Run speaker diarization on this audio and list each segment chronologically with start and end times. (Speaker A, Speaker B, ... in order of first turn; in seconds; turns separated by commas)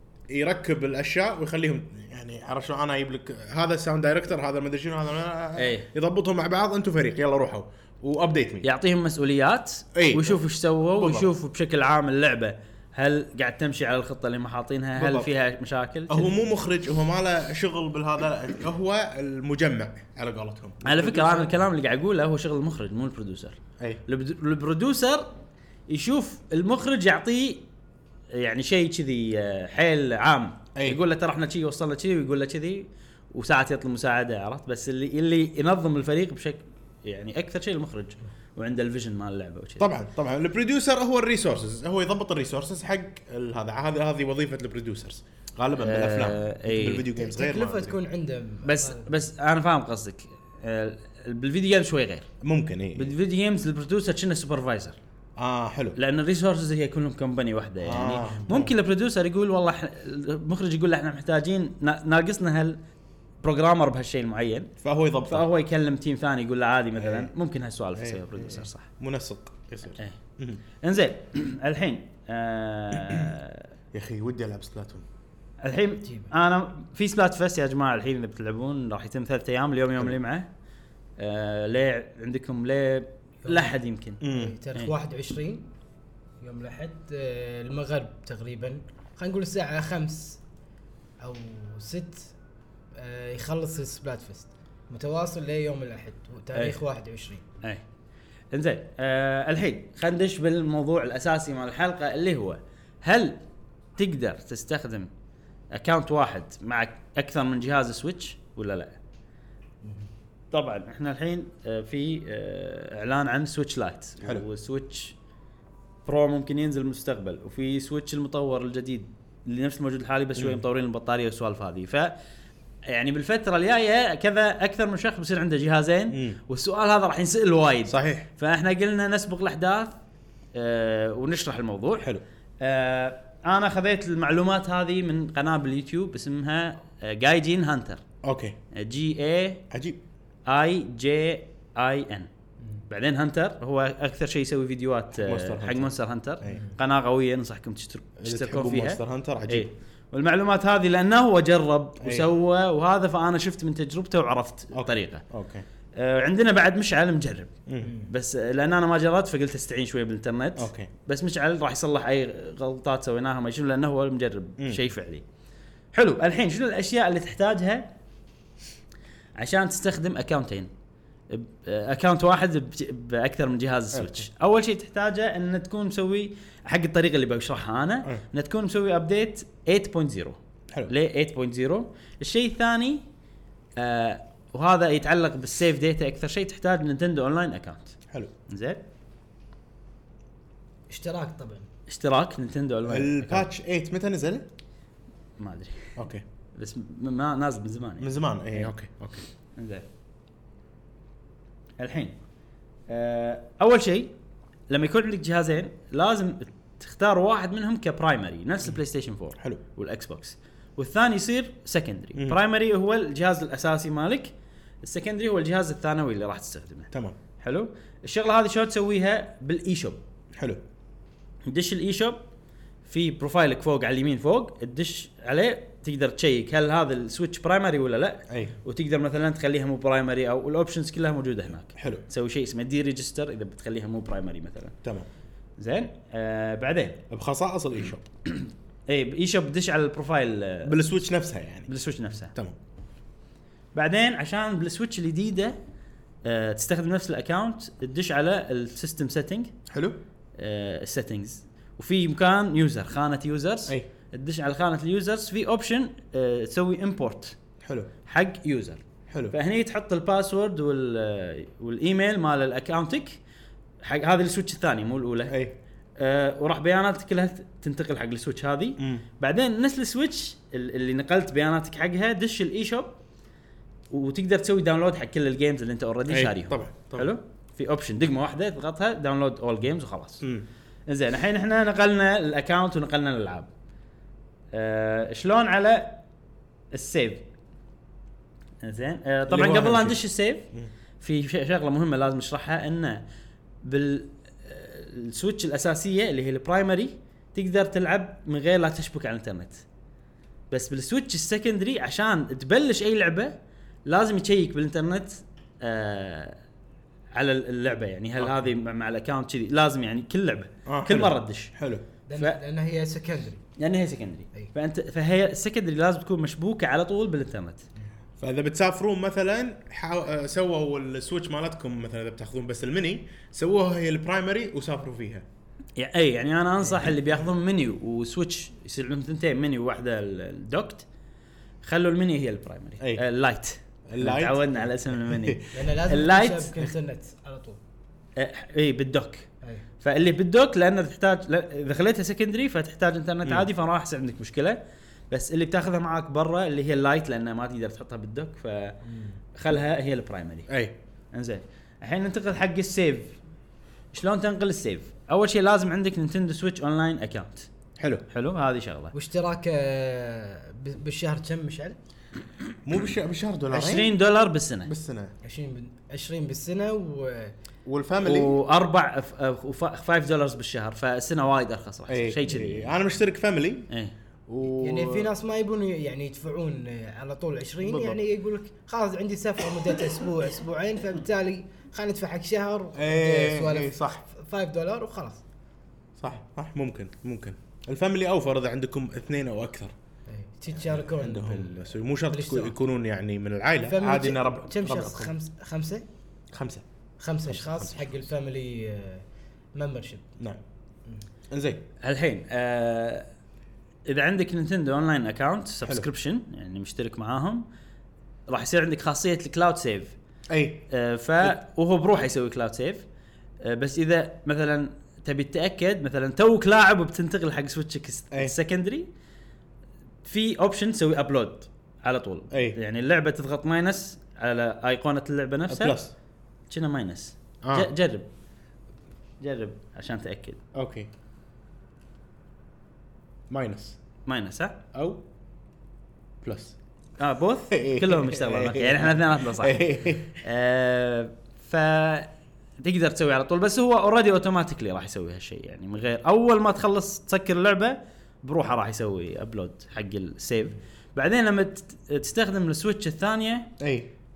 Speaker A: 0.3-8.7, Speaker B: 5.6-5.9, Speaker B: 8.6-16.3, Speaker A: 9.9-10.4, Speaker A: 11.0-11.3, Speaker A: 15.0-15.3, Speaker A: 16.1-21.6, Speaker B: 20.8-25.3, Speaker B: 25.9-27.6, Speaker B: 28.3-39.9, Speaker A: 30.8-31.0, Speaker A: 39.8-48.0, Speaker B: 45.8-47.1, Speaker C: 47.2-49.1, Speaker B: 48.6-52.3, Speaker A: 52.4-53.1, Speaker B: 53.0-55.0, Speaker A: 55.4-56.0, Speaker B: 56.0-62.8, Speaker A: 57.8-58.7, Speaker B: 63.4-64.7, Speaker A: 64.8-65.5, Speaker B: 65.3-68.9, Speaker A: 67.0-67.3, Speaker A: 67.9-70.6, Speaker B: 70.8-73.7, Speaker A: 73.0-73.3, Speaker A: 73.9-75.0, Speaker B: 75.6-80.5, Speaker C: 76.0-76.3, Speaker B: 81.2-84.2, Speaker C: 83.5-85.7, Speaker A: 84.2-84.6, Speaker C: 86.4-90.4, Speaker C: 91.2-92.3, Speaker C: 93.0-97.5, Speaker B: 96.5-96.8, Speaker B: 98.5-103.4, Speaker B: 104.0-105.1, Speaker B: 105.7-109.0, Speaker B: 110.5-115.2, Speaker B: 116.0-122.1, Speaker A: 120.4-120.6, Speaker B: 122.9-129.9, Speaker A: 126.1-126.4, Speaker A: 127.9-128.3, Speaker B: 130.5-132.1, Speaker B: 132.6-138.0, Speaker A: 138.2-138.6, Speaker B: 138.7-139.6, Speaker A: 139.7-140.0, Speaker B: 140.5-142.3, Speaker B: 142.9-155.2, Speaker A: 145.1-146.6, Speaker A: 148.2-149.7, Speaker A: 152.0-152.3, Speaker A: 154.7-155.6, Speaker B: 155.9-165.2, Speaker A: 157.7-157.9, Speaker A: 160.6-160.9, Speaker B: 165.9-167.9, Speaker B: 169.4-170.7, Speaker B: 171.3-183.0, Speaker A: 173.9-174.2, Speaker B: 183.8-188.0, Speaker B: 188.5-188.8, Speaker C: 190.9-191.7, Speaker B: 191.9-193.5, Speaker A: 192.9-194.5, Speaker B: 195.4-195.9, Speaker A: 196.0-196.2, Speaker B: 196.6-198.7, Speaker A: 198.0-199.2, Speaker B: 199.6-199.8, Speaker B: 201.8-202.2, Speaker B: 202.9-204.1, Speaker B: 204.7-220.0, Speaker A: 220.3-220.6, Speaker B: 221.5-222.2, Speaker B: 222.8-234.8, Speaker A: 228.3-228.6, Speaker A: 231.8-232.1, Speaker B: 235.6-237.0, Speaker A: 237.1-238.1, Speaker B: 238.2-240.8, Speaker A: 240.6-241.7, Speaker B: 241.7-242.3, Speaker B: 243.8-245.6, Speaker B: 246.2-249.5, Speaker A: 249.7-250.0, Speaker B: 250.4-257.4, Speaker A: 257.6-257.9, Speaker B: 258.1-263.2, Speaker A: 259.1-259.4, Speaker B: 263.8-265.4, Speaker A: 265.3-265.6, Speaker B: 266.0-273.0, Speaker A: 268.8-269.0, Speaker B: 273.9-280.2, Speaker A: 276.1-277.1, Speaker B: 280.9-283.5, Speaker B: 284.5-286.0, Speaker B: 286.7-287.2, Speaker B: 288.6-290.5, Speaker A: 289.3-290.0, Speaker B: 291.0-293.1, Speaker B: 293.6-299.6, Speaker B: 300.5-306.4, Speaker B: 307.1-311.5, Speaker A: 308.2-308.5, Speaker A: 310.7-311.9, Speaker C: 312.1-313.4, Speaker B: 313.6-317.6, Speaker A: 318.2-325.2, Speaker B: 325.8-330.9, Speaker B: 331.6-336.6, Speaker A: 333.9-335.4, Speaker C: 335.5-337.6, Speaker B: 338.2-339.3, Speaker B: 339.8-344.6, Speaker B: 345.1-348.8, Speaker C: 348.9-349.2, Speaker B: 349.4-350.5, Speaker A: 350.5-350.8, Speaker B: 351.1-353.1, Speaker B: 353.9-357.5, Speaker A: 357.8-358.0, Speaker B: 358.1-358.9, Speaker C: 358.9-361.8, Speaker A: 362.6-363.9, Speaker B: 363.5-364.7, Speaker A: 364.7-365.1, Speaker C: 365.2-367.3, Speaker A: 367.6-368.4, Speaker B: 368.0-372.8, Speaker A: 371.9-373.7, Speaker A: 374.3-375.1, Speaker C: 374.5-385.2, Speaker A: 377.6-378.0, Speaker A: 382.8-384.0, Speaker A: 386.0-389.7, Speaker C: 390.1-392.6, Speaker A: 390.5-395.1, Speaker C: 393.7-395.8, Speaker A: 396.3-396.6, Speaker C: 397.0-400.1, Speaker A: 397.3-398.1, Speaker A: 401.3-401.6, Speaker B: 401.8-403.1, Speaker B: 403.9-407.4, Speaker B: 408.3-409.9, Speaker A: 410.3-410.6, Speaker B: 410.7-412.9, Speaker B: 413.4-418.9, Speaker B: 420.0-425.8, Speaker A: 422.3-422.6, Speaker A: 425.5-425.9, Speaker B: 426.5-428.1, Speaker A: 427.4-427.7, Speaker B: 429.2-430.4, Speaker A: 430.5-430.9, Speaker A: 433.3-433.8, Speaker B: 434.1-434.6, Speaker A: 434.7-435.0, Speaker A: 436.2-436.6, Speaker B: 437.0-439.6, Speaker A: 437.5-440.2, Speaker B: 440.2-453.5, Speaker A: 453.6-453.9